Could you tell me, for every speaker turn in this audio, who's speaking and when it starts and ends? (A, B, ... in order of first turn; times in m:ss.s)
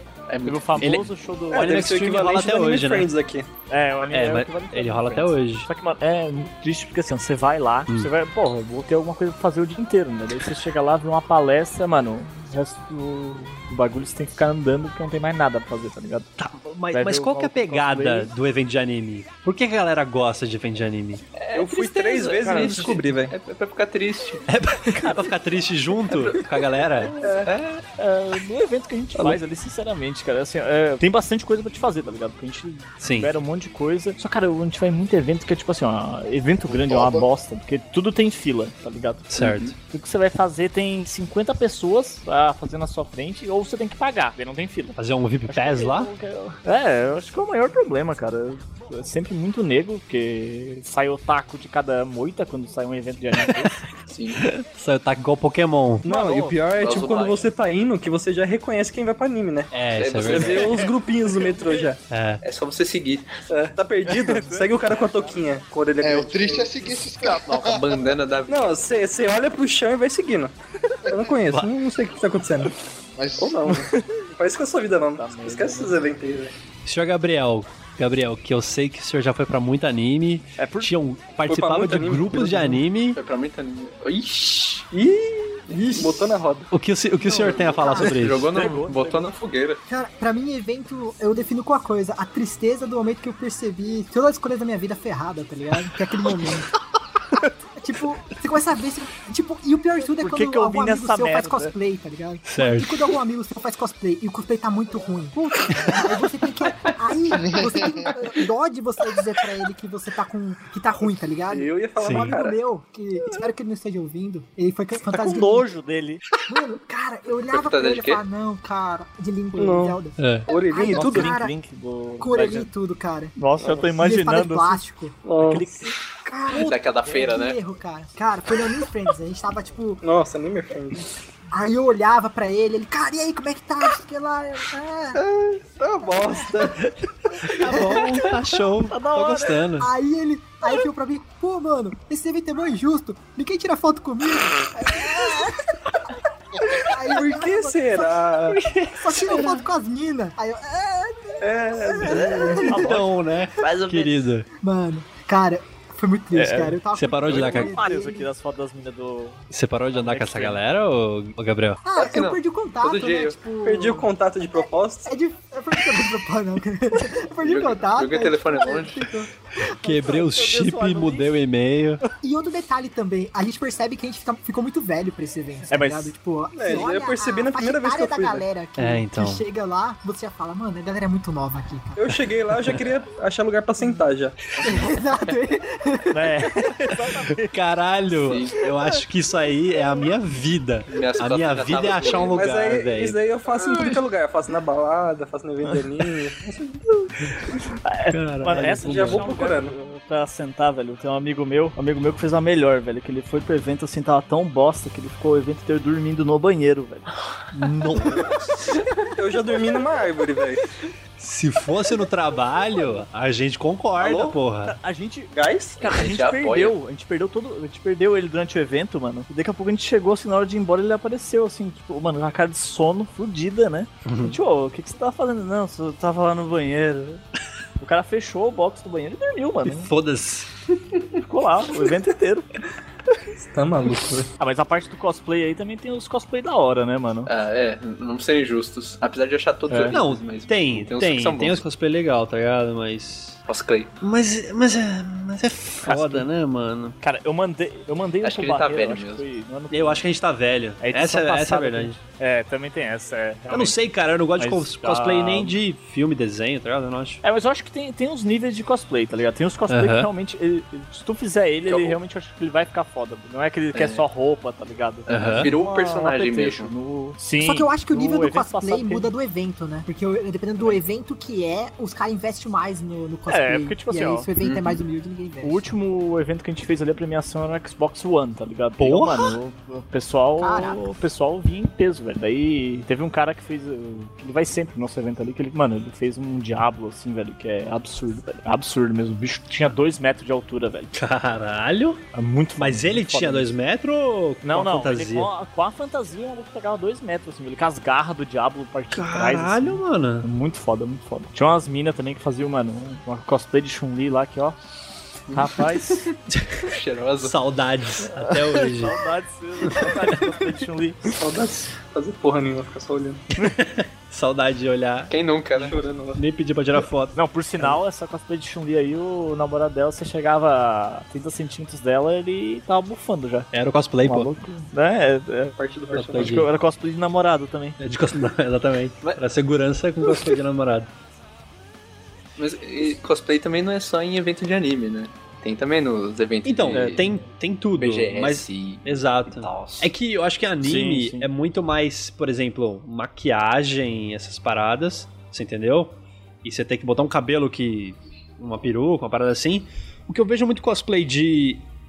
0:00.3-0:01.1 A
0:00.4-0:01.8 B
0:00.8-0:03.1 C
0:01.5-0:03.5 D
0:03.7-0:16.3 B
0:04.1-0:05.7 C
0:16.4-0:21.2 C
0:16.9-0:18.3 B
0:21.4-0:24.4 A
0:21.5-0:23.3 D
0:22.4-0:22.9 B
0:24.5-0:27.1 C
0:24.9-0:25.3 B
0:27.2-0:27.5 D
0:27.4-0:27.8 A
0:28.0-0:39.3 B
0:33.0-0:33.3 C
0:36.7-0:37.2 E
0:39.3-0:39.7 C
0:39.4-0:39.7 A
0:39.9-0:53.8 B
0:45.0-0:46.1 C
0:54.1-0:54.4 A
0:54.4-0:56.0 C
0:56.0-1:02.0 D
0:56.0-0:56.6 B
0:56.8-0:57.5 A
0:59.7-1:00.7 C
1:00.0-1:00.7 A
1:00.5-1:00.9 B
1:01.4-1:01.8 B
1:02.1-1:02.4 C
1:02.4-1:03.3 A
1:03.5-1:06.8 D
1:04.0-1:05.4 B
1:06.0-1:08.2 E
1:07.4-1:08.8 A
1:08.5-1:10.5 D
1:11.0-1:11.3 E
1:11.1-1:12.7 D
1:13.2-1:13.7 E
1:13.4-1:16.5 D
1:13.7-1:14.2 B
1:15.2-1:16.0 B
1:16.8-1:23.2 C
1:20.6-1:20.9 B
1:21.5-1:22.8 D
1:23.1-1:24.8 A
1:24.9-1:26.7 D
1:25.7-1:26.4 F
1:26.7-1:28.6 C
1:27.2-1:28.2 F
1:27.4-1:29.8 A
1:28.5-1:29.2 B
1:29.9-1:36.7 F
1:37.8-1:55.7 F
1:40.1-1:41.7 B
1:42.4-1:43.1 C
1:47.3-1:48.1 E
1:51.5-1:52.6 D
1:52.0-1:52.4 C
1:55.1-1:56.2 B
1:56.5-2:01.6 F
1:57.5-1:58.2 A
1:59.6-2:01.3 D
2:00.2-2:00.4 C
2:00.8-2:02.7 B
2:02.2-2:03.4 F
2:03.4-2:04.8 B
2:03.6-2:03.9 D
2:03.9-2:05.2 F
2:05.2-2:05.8 D
2:05.4-2:06.0 B
2:06.2-2:10.0 F
2:06.5-2:07.6 A
2:10.0-2:11.0 D
2:11.5-2:15.2 F
2:15.2-2:16.8 D
2:16.5-2:19.9 C
2:17.6-2:18.2 F
2:17.6-2:18.0 B
2:18.8-2:19.6 B
2:19.8-2:25.6 F
2:26.6-2:28.3 F
2:27.0-2:28.6 D
2:28.5-2:29.7 C
2:28.9-2:33.0 F
2:31.4-2:32.7 D
2:32.1-2:33.1 B
2:32.6-2:34.4 C
2:33.6-2:34.3 B
2:34.6-2:38.3 F
2:36.3-2:40.6 B
2:36.9-2:37.7 C
2:39.5-2:41.8 C
2:41.8-2:50.3 F
2:42.0-2:43.4 A
2:43.6-2:45.1 D
2:47.4-2:49.2 A
2:49.8-2:52.0 C
2:50.0-2:51.3 B
2:52.2-3:02.1 F
2:55.7-2:56.1 B
2:56.5-2:58.4 D
2:58.8-2:59.4 C
3:02.0-3:04.4 D
3:04.6-3:06.5 F
3:06.1-3:07.5 B
3:07.4-3:13.2 C
3:08.2-3:08.6 A
3:10.9-3:12.4 A
3:12.3-3:16.7 D
3:17.8-3:27.1 B
3:18.1-3:19.3 C
3:18.5-3:19.7 D
3:27.5-3:28.3 C
3:29.1-3:30.6 D
3:31.2-3:34.7 C
3:34.0-3:34.4 D
3:34.6-3:47.2 B
3:35.3-3:35.8 D
3:35.8-3:36.8 A
3:44.0-3:44.4 C
3:47.8-3:49.9 B
3:49.6-3:50.5 C
3:51.2-3:52.5 B
3:53.4-3:54.3 D
3:54.4-3:57.3 B
3:57.3-4:01.6 A
3:59.7-4:00.0 B
3:59.9-4:03.4 C
4:03.5-4:03.9 A
4:04.0-4:07.0 C
4:05.8-4:06.3 B
4:07.0-4:10.0 B
4:08.2-4:09.2 A
4:09.7-4:12.0 C
4:10.8-4:13.8 B
4:13.5-4:17.2 C
4:14.4-4:15.6 B
4:17.2-4:29.1 B
4:19.7-4:20.1 C
4:21.7-4:22.0 A
4:23.7-4:24.0 A
4:25.1-4:26.7 A
4:25.1-4:25.5 C
4:27.4-4:35.6 F
4:33.3-4:34.3 B
4:34.4-4:34.8 A
4:35.4-4:50.9 B
4:38.8-4:39.4 C
4:40.4-4:40.8 F
4:50.9-4:52.0 C
4:52.1-4:53.6 B
4:52.6-4:55.3 C
4:54.4-5:04.6 B
4:58.9-5:00.3 C
5:05.3-5:07.4 A
5:05.3-5:06.1 B
5:06.3-5:06.6 C
5:07.2-5:09.0 C
5:08.1-5:11.2 B
5:11.2-5:13.2 D
5:13.5-5:15.1 C
5:15.1-5:15.8 A
5:15.5-5:16.2 D
5:16.1-5:17.8 C
5:17.1-5:23.5 B
5:23.5-5:24.3 C
5:24.0-5:27.8 B
5:25.6-5:26.4 D
5:25.9-5:26.5 C
5:27.8-5:30.9 C
5:32.4-5:37.1 A
5:36.4-5:51.6 C
5:36.7-5:37.0 B
5:37.8-5:39.9 A
5:40.6-5:41.3 B